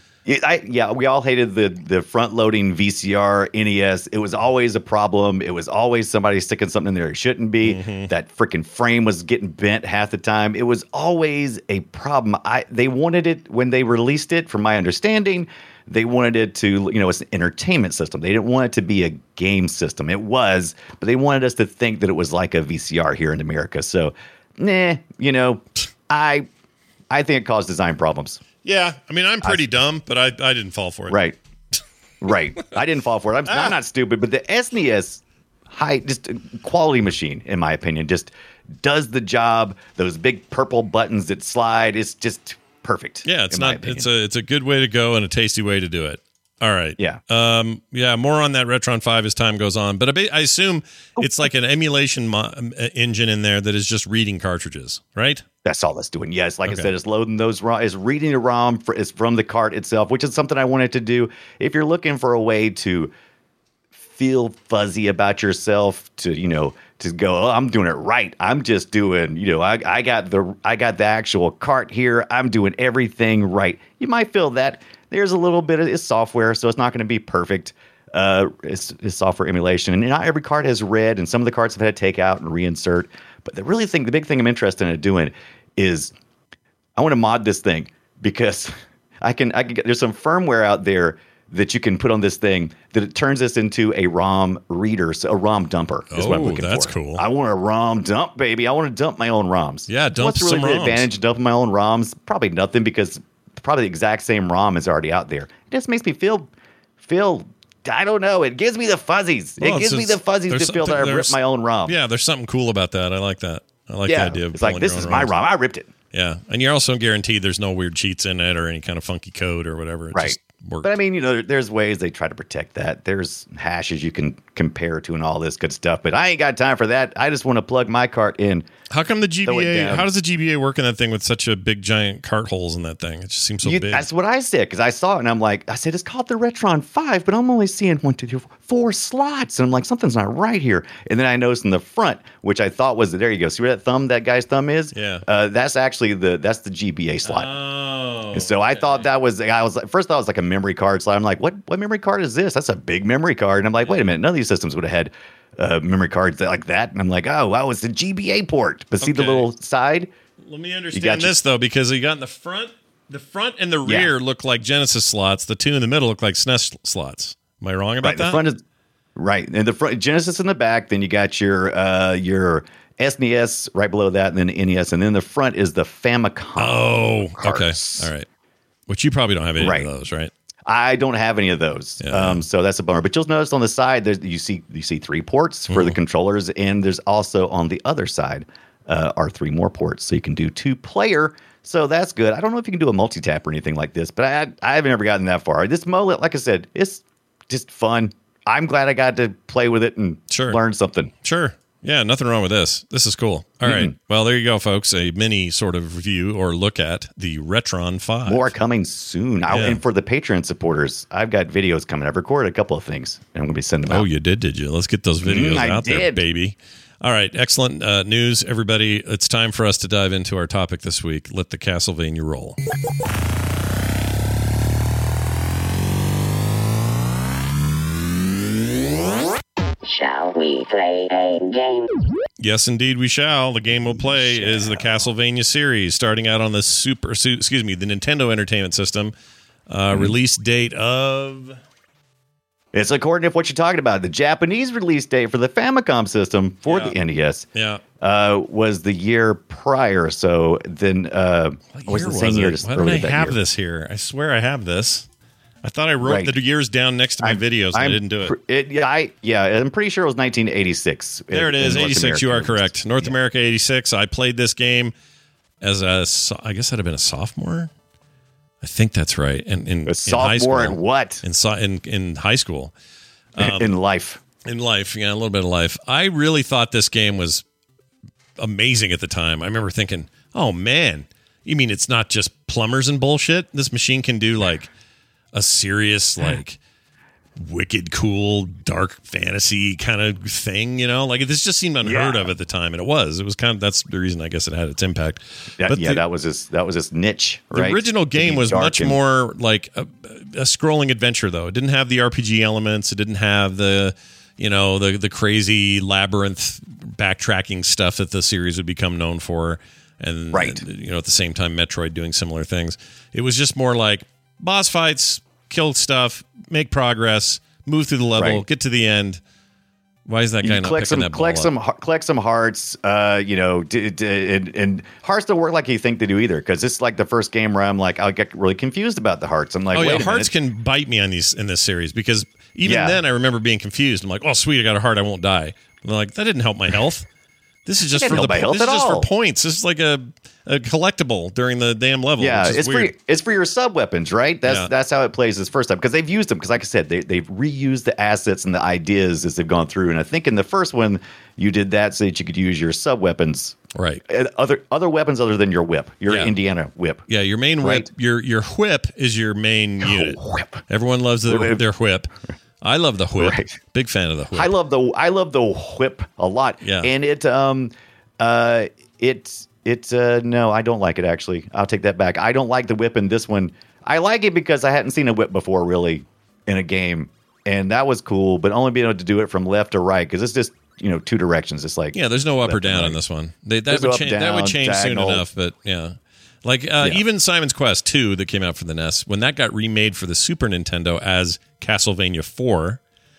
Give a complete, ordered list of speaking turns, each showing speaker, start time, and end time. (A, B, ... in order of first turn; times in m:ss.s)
0:00.3-0:26.5 A
0:07.6-0:08.1 B
0:27.1-0:28.4 A
0:28.6-0:31.2 B
0:31.1-0:31.4 A
0:32.2-0:38.3 A
0:33.5-0:33.8 B
0:38.8-0:44.1 A
0:43.2-0:55.4 B
0:55.6-1:03.1 A
0:56.6-0:56.9 B
1:04.1-1:26.1 A
1:27.0-1:46.5 A
1:36.1-1:37.2 B
1:39.9-1:41.1 B
1:47.0-1:52.0 A
1:49.6-1:55.3 B
1:54.1-1:55.9 A
1:56.1-2:00.9 B
2:00.1-2:08.7 A
2:08.9-2:14.1 B
2:09.4-2:10.1 A
2:13.6-2:27.5 A
2:24.9-2:25.2 B
2:27.2-2:29.1 B
2:28.3-2:40.1 A
2:33.8-2:34.1 B
2:39.0-2:39.5 B
2:40.4-2:48.4 B
2:40.9-2:41.3 A
2:43.8-2:44.1 A
2:48.0-2:48.6 A
2:49.2-2:58.1 A
2:56.6-2:58.3 B
2:58.9-3:00.3 B
2:59.6-2:59.9 A
3:00.7-3:21.1 A
3:02.0-3:02.4 B
3:05.7-3:06.0 B
3:20.3-3:20.6 B
3:21.2-3:28.5 B
3:23.6-3:23.9 A
3:28.3-3:34.0 A
3:29.5-3:29.8 B
3:33.9-3:42.6 B
3:35.2-3:36.2 A
3:49.8-3:52.0 C
3:52.4-3:59.2 B
3:54.1-3:54.8 A
3:59.7-4:01.6 B
4:02.7-4:07.5 A
4:06.7-4:07.0 B
4:07.5-4:07.8 B
4:08.0-4:13.4 A
4:11.7-4:15.1 B
4:15.6-4:18.4 B
4:16.0-4:16.3 A
4:17.2-4:23.1 A
4:21.3-4:24.9 B
4:25.6-4:27.7 B
4:28.6-4:32.7 B
4:29.9-4:31.2 A
4:33.4-4:33.7 B
4:33.4-4:34.2 A
4:34.4-4:37.4 B
4:38.4-4:44.7 B
4:45.3-4:46.6 B
4:47.4-4:56.0 B
4:51.8-4:52.3 A
4:55.6-4:59.0 A
4:57.5-5:19.2 B
5:10.3-5:10.6 A
5:18.2-5:18.4 A
5:20.1-5:21.5 B
5:20.4-5:30.3 A
5:29.7-5:37.1 B
5:32.6-5:33.0 A
5:37.7-5:42.9 B
5:37.9-5:39.1 A
5:42.2-5:53.6 A
5:44.4-5:44.7 B
5:53.8-5:54.0 B
5:54.1-5:57.1 A
5:56.1-5:56.4 B
5:57.1-6:02.1 B
5:57.6-5:57.9 A
5:59.8-6:00.6 A
6:01.3-6:01.6 A
6:02.6-6:04.5 B
6:03.2-6:03.6 A
6:04.4-6:23.0 A
6:06.6-6:06.9 B
6:21.9-6:32.8 B
6:23.7-6:25.2 A